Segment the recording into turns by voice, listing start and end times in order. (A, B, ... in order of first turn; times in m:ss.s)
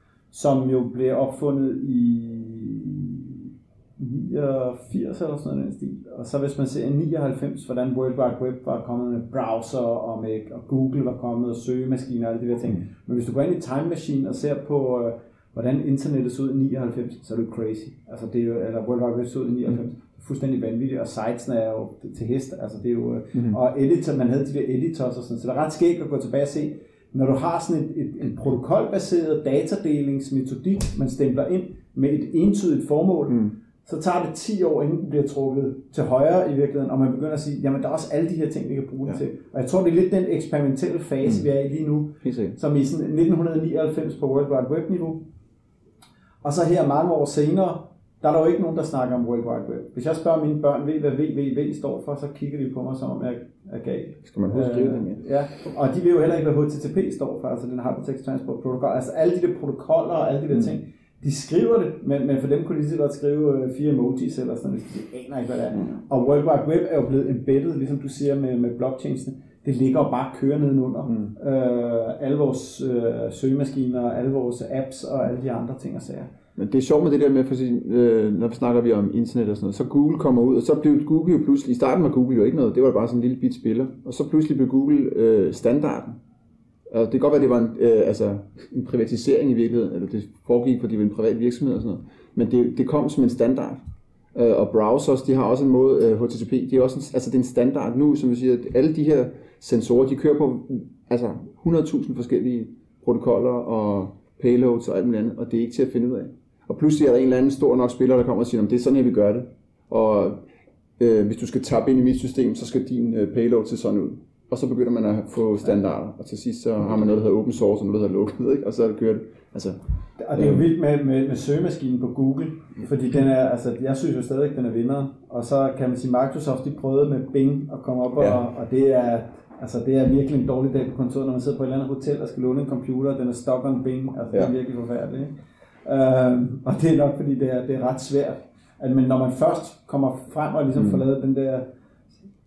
0:00.3-0:45.3 A
0:42.2-0:42.6 B
0:46.4-1:16.3 A
0:54.2-0:55.2 B
1:11.1-1:11.3 B
1:16.6-1:26.2 B
1:26.9-1:50.4 B
1:51.0-1:59.8 B
2:00.2-2:15.3 A
2:00.3-2:00.6 B
2:15.8-2:21.7 A